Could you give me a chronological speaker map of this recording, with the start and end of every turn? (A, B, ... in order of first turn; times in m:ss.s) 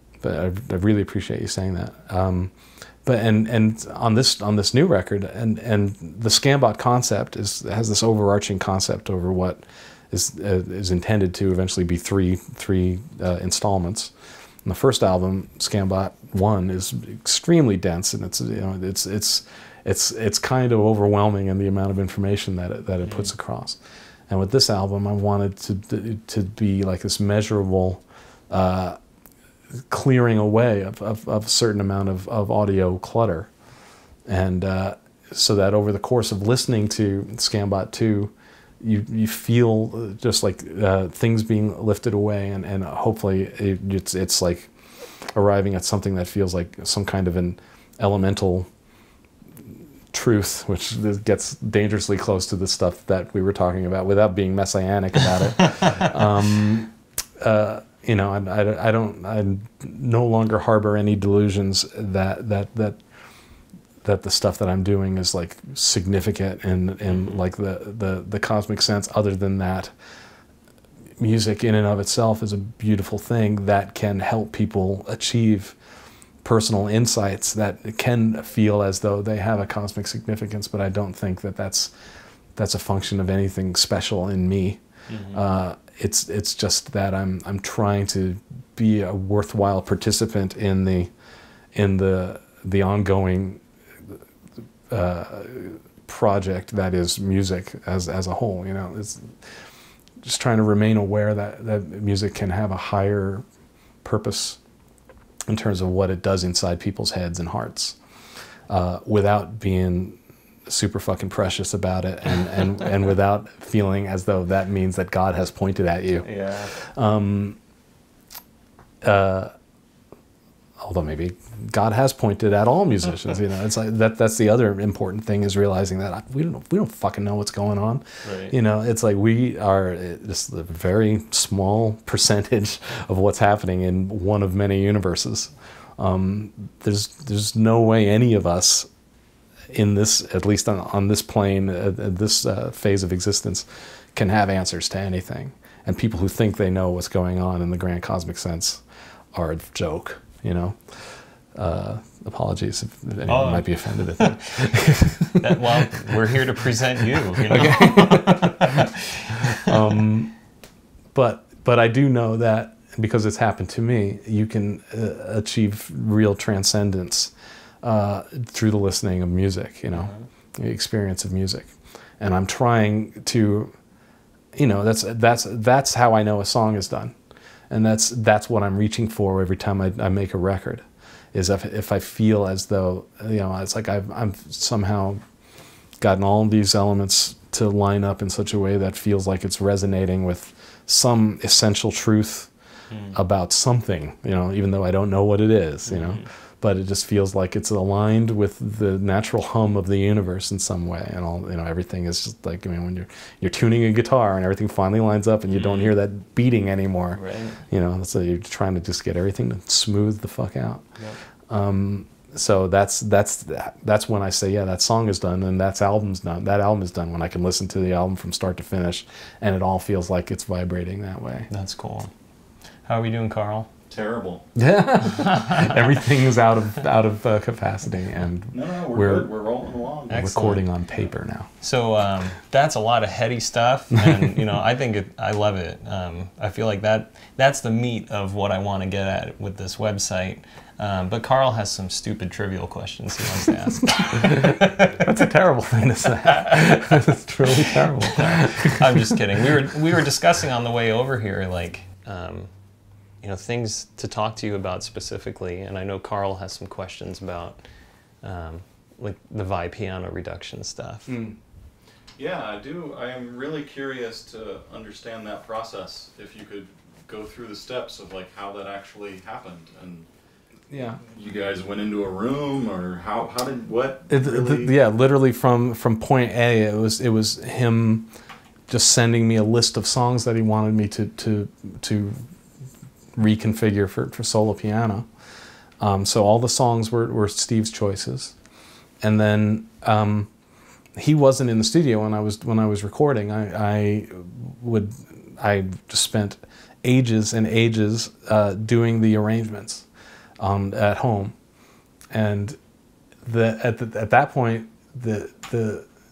0:00.2-0:02.5 A
0:03.0-0:14.1 A
0:14.6-0:29.0 A
0:23.0-0:23.3 B
0:29.9-0:33.5 A
0:34.2-0:44.7 A
0:45.3-0:48.7 A
0:50.1-1:03.0 A
1:04.0-1:09.9 A
1:11.2-1:15.8 A
1:16.4-1:21.9 A
1:22.6-1:24.8 A
1:25.1-1:25.4 B
1:25.3-1:31.1 A
1:31.7-1:33.6 A
1:34.9-1:39.3 A
1:40.2-1:43.4 A
1:44.0-1:44.6 A
1:45.5-1:48.0 A
1:48.7-1:57.6 A
1:56.2-1:56.7 B
1:59.0-1:59.5 A
2:00.8-2:18.9 A
2:08.2-2:08.5 B
2:19.7-2:30.8 A
2:31.5-2:36.3 A
2:33.3-2:34.6 B
2:35.4-2:39.8 B
2:37.4-2:38.9 A
2:39.5-2:40.3 A
2:41.1-2:53.7 A
2:49.9-2:50.2 B
2:54.5-2:57.1 A
2:57.7-3:05.2 A
3:06.0-3:12.5 A
3:12.9-3:13.2 B
3:13.1-3:30.8 A
3:15.9-3:16.3 B
3:25.5-3:25.9 B
3:27.1-3:27.6 B
3:31.5-3:41.5 A
3:41.5-3:42.1 B
3:42.8-3:43.7 B
3:43.9-3:44.4 C
3:44.5-3:49.3 A
3:45.2-3:45.7 B
3:48.5-3:50.3 C
3:50.1-3:50.6 B
3:50.1-3:51.5 A
3:51.6-4:04.9 B
3:53.9-3:54.3 A
4:03.5-4:09.2 A
4:06.3-4:06.7 B
4:08.0-4:12.5 B
4:13.2-4:17.6 B
4:18.2-4:21.1 B
4:21.1-4:21.4 A
4:22.2-4:30.1 C
4:30.7-4:31.0 A
4:31.0-4:34.7 C
4:34.1-4:38.1 A
4:38.7-4:42.2 A
4:43.1-4:45.1 A
4:45.8-4:48.3 A
4:49.0-4:50.3 A
4:50.9-4:59.8 A
5:00.4-5:01.3 A
5:02.1-5:02.6 A
5:03.2-5:05.9 A